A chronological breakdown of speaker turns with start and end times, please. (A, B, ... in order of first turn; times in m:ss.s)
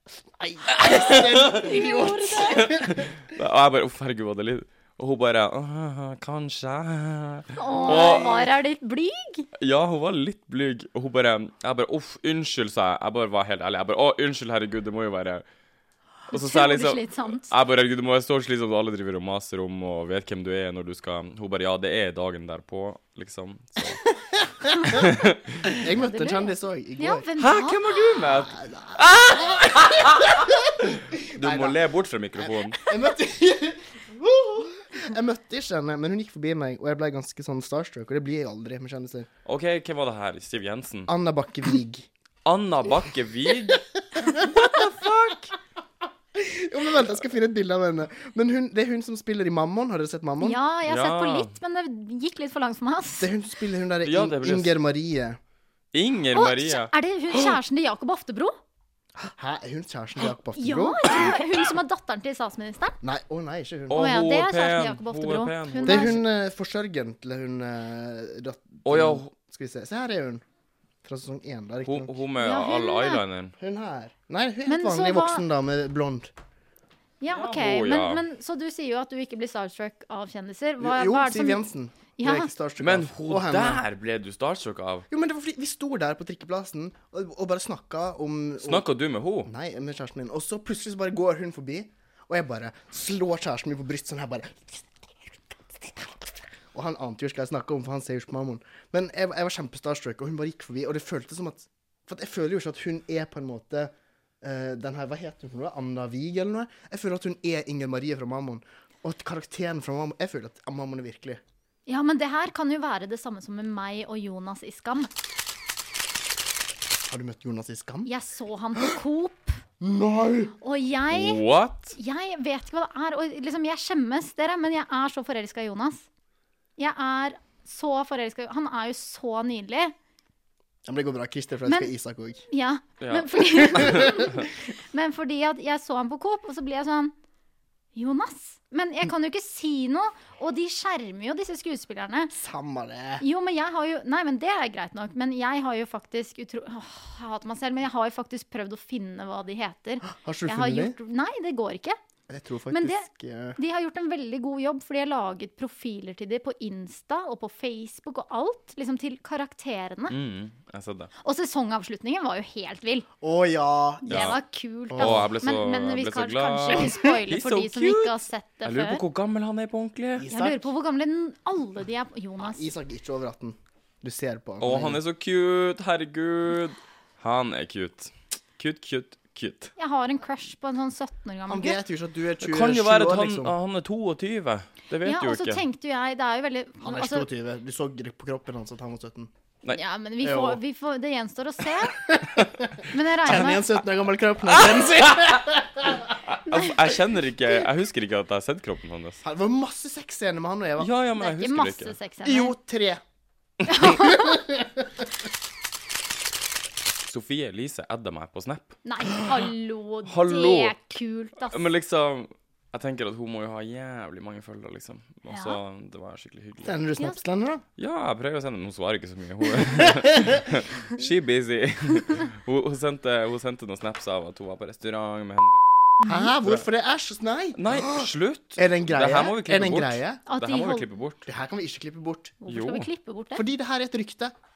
0:00.4-0:03.1 A
0:00.7-0:01.7 B
0:01.4-0:02.7 C
0:02.4-0:08.3 B
0:07.6-0:09.5 C
0:07.7-0:08.5 A
0:09.6-0:15.4 B
0:16.3-0:17.5 C
0:16.3-0:24.1 B
0:24.4-0:24.9 A
0:24.8-0:25.5 B
0:25.6-0:27.2 A
0:25.9-0:27.8 C
0:27.4-0:32.9 B
0:28.5-0:29.6 A
0:31.4-0:31.8 A
0:32.4-0:39.3 A
0:39.4-0:41.1 B
0:41.1-0:42.1 A
0:42.4-0:45.5 B
0:43.7-0:44.3 A
0:46.4-0:50.6 A
0:50.4-0:53.3 C
0:50.8-0:51.5 B
0:53.2-0:55.4 A
0:54.0-0:54.8 B
0:55.9-0:56.9 B
0:56.3-0:58.6 C
0:59.2-1:01.5 A
1:00.5-1:03.0 C
1:03.0-1:04.1 A
1:03.9-1:06.2 B
1:03.9-1:06.2 C
1:05.8-1:10.4 A
1:08.8-1:09.3 B
1:11.0-1:12.2 A
1:11.8-1:13.6 B
1:12.4-1:13.2 C
1:13.6-1:16.3 A
1:14.6-1:15.4 C
1:17.2-1:21.6 C
1:17.3-1:18.2 B
1:20.8-1:23.8 A
1:22.2-1:22.5 C
1:22.8-1:25.0 B
1:25.1-1:28.8 A
1:28.6-1:29.5 B
1:29.4-1:51.4 A
1:51.9-1:55.1 C
1:57.1-1:58.1 A
1:58.0-1:59.6 C
1:59.8-2:00.5 A
2:00.6-2:01.4 C
2:01.1-2:01.9 B
2:01.9-2:06.0 C
2:06.8-2:09.9 C
2:10.9-2:12.4 A
2:11.6-2:11.9 C
2:12.5-2:17.1 C
2:13.0-2:14.2 B
2:13.6-2:14.1 A
2:17.9-2:22.3 C
2:22.3-2:23.2 A
2:23.2-2:32.0 C
2:30.1-2:31.0 A
2:32.3-2:33.6 A
2:32.7-2:40.2 C
2:40.1-2:41.1 B
2:41.2-2:43.0 C
2:43.2-2:45.3 A
2:44.0-2:49.0 C
2:44.1-2:44.4 B
2:45.0-2:50.3 B
2:46.7-2:47.0 A
2:50.2-2:50.6 A
2:50.3-2:52.7 C
2:52.4-2:55.0 A
2:54.6-2:59.7 B
2:59.8-3:01.8 C
3:01.5-3:03.5 A
3:02.4-3:05.6 B
3:05.0-3:07.3 C
3:06.8-3:09.3 A
3:09.7-3:12.1 C
3:10.2-3:10.6 A
3:12.1-3:16.0 A
3:12.8-3:13.8 C
3:14.5-3:15.0 B
3:16.2-3:19.2 B
3:16.5-3:16.9 C
3:19.2-3:20.9 A
3:20.8-3:22.0 B
3:21.2-3:22.5 C
3:22.2-3:23.0 A
3:23.6-3:23.9 B
3:23.7-3:24.4 C
3:23.8-3:25.0 A
3:27.0-3:28.8 B
3:28.8-3:31.7 C
3:30.0-3:30.8 B
3:31.5-3:36.8 B
3:35.3-3:35.6 C
3:36.6-3:37.6 A
3:37.8-3:45.6 B
3:46.0-3:46.3 C
3:46.0-3:50.2 A
3:47.6-3:51.3 B
3:50.3-3:50.9 C
3:51.2-3:52.4 A
3:52.4-3:53.4 C
3:52.5-3:52.9 B
3:53.3-3:54.3 A